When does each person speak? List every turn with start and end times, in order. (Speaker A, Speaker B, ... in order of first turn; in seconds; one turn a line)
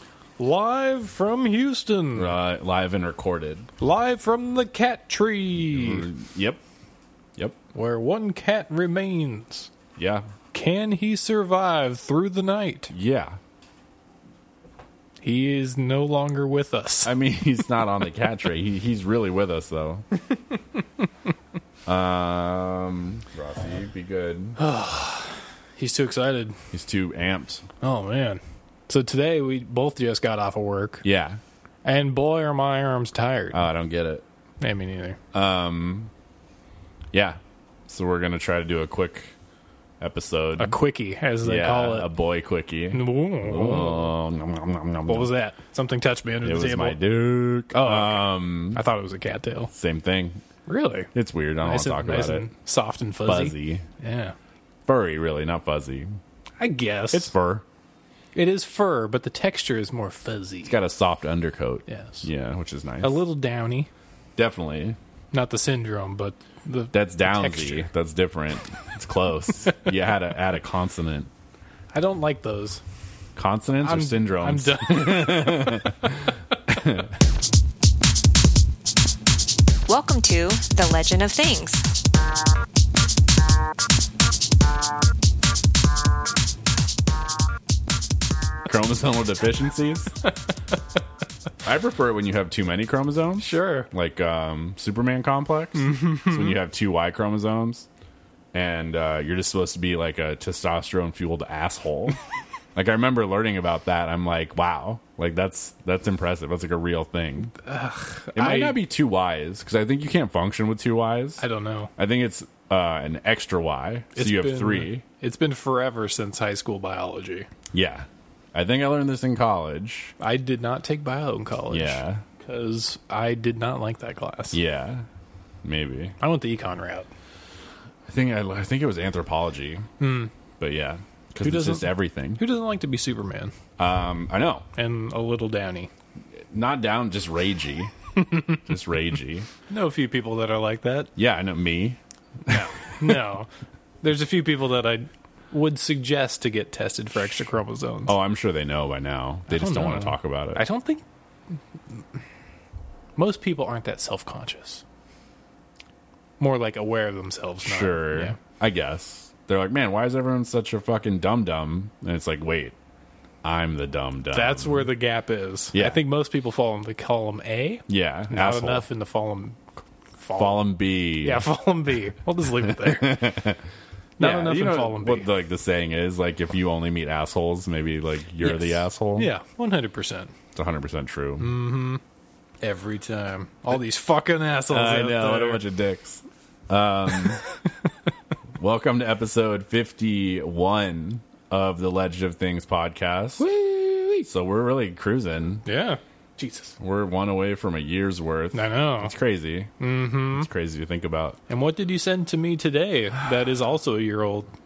Speaker A: 0.4-2.3
Speaker B: 2.1-3.7
Speaker A: 3.8-6.1
Speaker B: 5.7-6.6
Speaker A: 7.7-9.7
Speaker B: 10.0-10.3
Speaker A: 10.5-12.9
Speaker B: 12.9-13.4
Speaker A: 15.2-17.1
Speaker B: 17.0-20.1
Speaker B: 21.9-24.6
Speaker A: 24.6-26.6
Speaker B: 26.7-27.7
Speaker A: 27.8-31.0
Speaker B: 31.0-31.4
Speaker A: 31.8-33.7
Speaker B: 33.5-34.2
Speaker A: 34.6-35.2
Speaker B: 35.3-36.1
Speaker B: 37.1-39.3
Speaker B: 40.0-40.8
Speaker A: 40.6-42.1
Speaker B: 41.4-45.3
Speaker A: 42.9-44.1
Speaker A: 45.1-47.0
Speaker B: 46.4-48.8
Speaker A: 47.7-49.7
Speaker B: 49.7-50.4
Speaker A: 50.7-51.1
Speaker B: 51.1-52.5
Speaker A: 51.6-54.4
Speaker B: 53.2-53.9
Speaker B: 54.9-56.1
Speaker A: 56.6-57.3
Speaker B: 57.1-57.6
Speaker A: 58.3-60.7
Speaker B: 60.6-63.2
Speaker A: 61.9-62.3
Speaker A: 63.0-63.9
Speaker B: 64.4-65.0
Speaker A: 65.3-67.9
Speaker B: 66.9-71.3
Speaker A: 71.9-72.8
Speaker B: 73.4-77.1
Speaker A: 73.8-76.0
Speaker C: 79.9-81.8
Speaker B: 88.7-90.1
Speaker B: 91.6-97.9
Speaker A: 93.4-93.9
Speaker A: 95.8-96.5
Speaker B: 98.5-102.2
Speaker B: 102.8-107.5
Speaker A: 107.5-108.8
Speaker B: 108.3-111.4
Speaker A: 111.4-111.9
Speaker B: 112.0-115.0
Speaker A: 114.2-117.5
Speaker B: 117.7-120.1
Speaker A: 120.2-124.6
Speaker B: 121.7-122.2
Speaker B: 124.5-125.1
Speaker B: 125.6-126.2
Speaker A: 126.2-127.1
Speaker B: 128.1-129.9
Speaker A: 130.0-130.3
Speaker B: 130.6-132.4
Speaker A: 131.4-133.6
Speaker B: 133.8-134.7
Speaker A: 134.8-135.9
Speaker B: 136.4-137.9
Speaker A: 138.2-138.4
Speaker B: 138.5-139.5
Speaker A: 139.7-141.1
Speaker B: 141.2-143.1
Speaker A: 142.5-143.5
Speaker A: 144.0-148.2
Speaker B: 148.1-150.7
Speaker A: 149.5-151.0
Speaker A: 153.2-154.8
Speaker A: 156.4-158.4
Speaker B: 157.6-162.8
Speaker B: 163.4-164.9
Speaker A: 164.3-169.6
Speaker B: 167.9-168.9
Speaker A: 170.2-173.3
Speaker B: 170.3-171.5
Speaker B: 172.6-173.6
Speaker A: 174.2-175.3
Speaker B: 174.2-179.3
Speaker A: 178.4-180.3
Speaker B: 180.5-181.6
Speaker A: 181.4-182.0
Speaker A: 182.6-185.6
Speaker B: 184.7-187.4
Speaker A: 187.2-187.9
Speaker B: 188.6-193.5
Speaker A: 193.4-194.2
Speaker B: 194.2-195.7
Speaker A: 195.7-196.8
Speaker B: 196.8-199.7
Speaker A: 198.5-199.1
Speaker A: 199.8-200.5
Speaker B: 200.3-201.4
Speaker A: 201.5-204.5